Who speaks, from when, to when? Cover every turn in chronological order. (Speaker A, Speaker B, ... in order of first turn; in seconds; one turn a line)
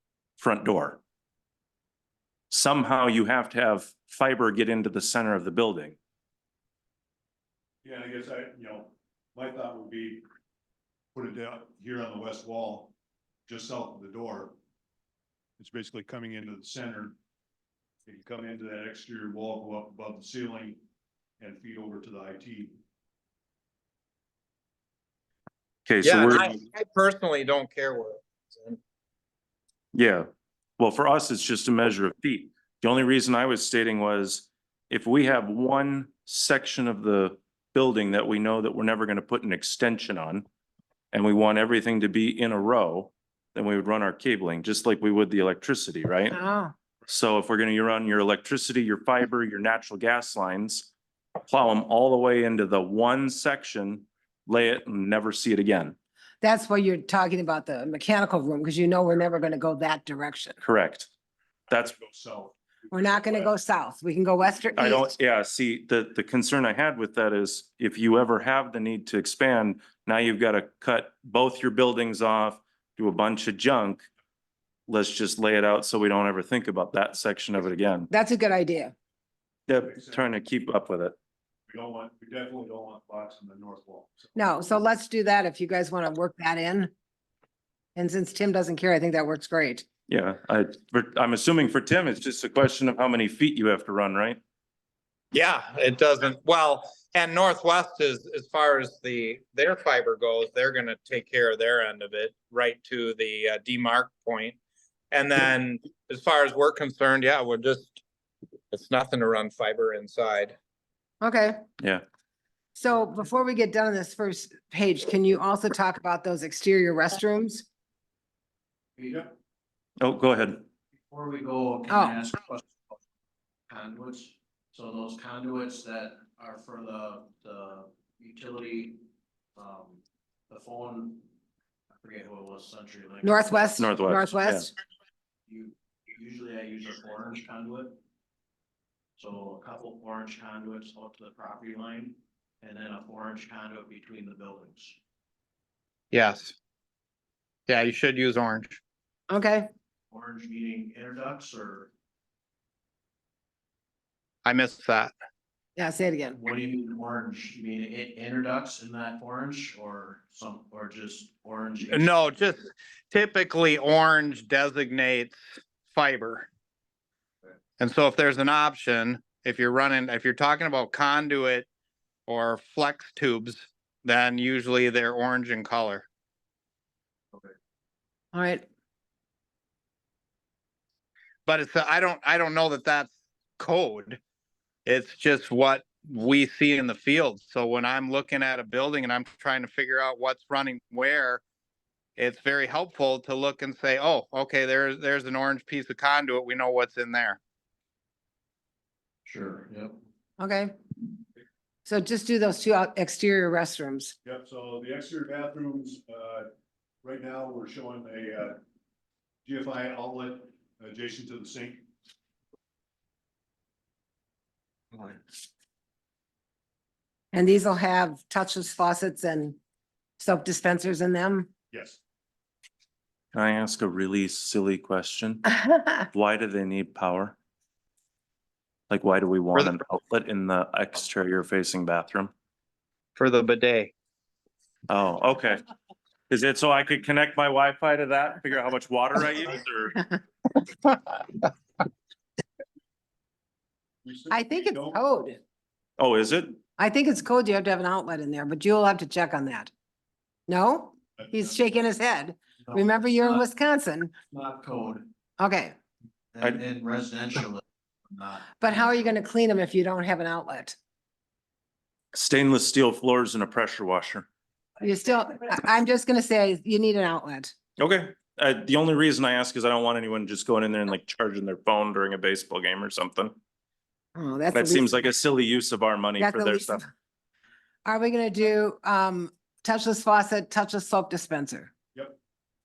Speaker A: 0.4-1.0
Speaker A: 2.5-6.0
Speaker B: 7.8-10.2
Speaker B: 11.1-12.9
Speaker B: 13.5-14.5
Speaker B: 15.6-17.1
Speaker B: 18.1-20.8
Speaker B: 21.4-22.7
Speaker A: 25.9-26.5
Speaker C: 26.0-28.8
Speaker A: 29.9-30.3
Speaker A: 30.8-40.5
Speaker A: 41.1-46.4
Speaker D: 46.3-46.7
Speaker A: 47.1-50.9
Speaker A: 51.5-56.0
Speaker D: 56.4-60.6
Speaker A: 60.6-61.1
Speaker A: 61.7-62.0
Speaker B: 61.7-63.5
Speaker D: 62.9-65.1
Speaker A: 64.8-74.1
Speaker A: 74.9-78.1
Speaker D: 78.1-78.9
Speaker A: 79.7-81.2
Speaker B: 79.8-80.2
Speaker B: 81.7-84.3
Speaker D: 84.4-86.9
Speaker D: 88.0-89.9
Speaker A: 90.1-94.4
Speaker C: 95.3-104.6
Speaker C: 105.1-108.0
Speaker C: 108.7-110.6
Speaker D: 111.2-111.6
Speaker D: 112.8-117.7
Speaker E: 119.0-119.3
Speaker A: 120.0-120.6
Speaker E: 121.1-122.7
Speaker D: 121.9-122.2
Speaker E: 123.7-129.0
Speaker E: 129.6-131.2
Speaker E: 132.0-133.8
Speaker D: 133.2-134.7
Speaker A: 133.8-134.7
Speaker E: 135.5-138.0
Speaker E: 139.2-145.0
Speaker C: 146.1-146.6
Speaker C: 147.7-148.8
Speaker D: 149.3-149.7
Speaker E: 150.1-151.9
Speaker C: 154.4-155.1
Speaker D: 155.8-156.4
Speaker E: 156.3-162.1
Speaker C: 161.9-166.5
Speaker C: 167.8-171.7
Speaker C: 172.3-176.1
Speaker D: 178.3-178.7
Speaker C: 181.5-184.2
Speaker C: 184.9-191.4
Speaker C: 192.2-197.4
Speaker E: 199.3-200.0
Speaker D: 200.4-200.7
Speaker D: 201.9-204.1
Speaker B: 204.2-206.5
Speaker B: 207.0-208.6
Speaker B: 209.4-211.9
Speaker D: 217.3-219.6
Speaker D: 220.2-221.5
Speaker B: 221.7-222.0
Speaker A: 223.3-225.5
Speaker A: 226.1-227.4
Speaker A: 228.9-232.3
Speaker C: 233.2-233.9
Speaker A: 234.9-235.6
Speaker A: 236.3-240.0
Speaker B: 244.0-245.0
Speaker D: 244.3-245.4
Speaker A: 246.0-246.6
Speaker D: 246.8-249.7
Speaker D: 250.5-254.1
Speaker E: 252.7-253.4
Speaker E: 254.3-255.1
Speaker D: 255.4-255.7
Speaker E: 256.3-258.7
Speaker D: 258.6-260.8
Speaker A: 262.1-264.3
Speaker D: 264.8-267.5
Speaker A: 267.8-273.4
Speaker D: 274.2-275.0
Speaker A: 274.5-276.8
Speaker D: 276.2-276.8
Speaker D: 277.9-281.7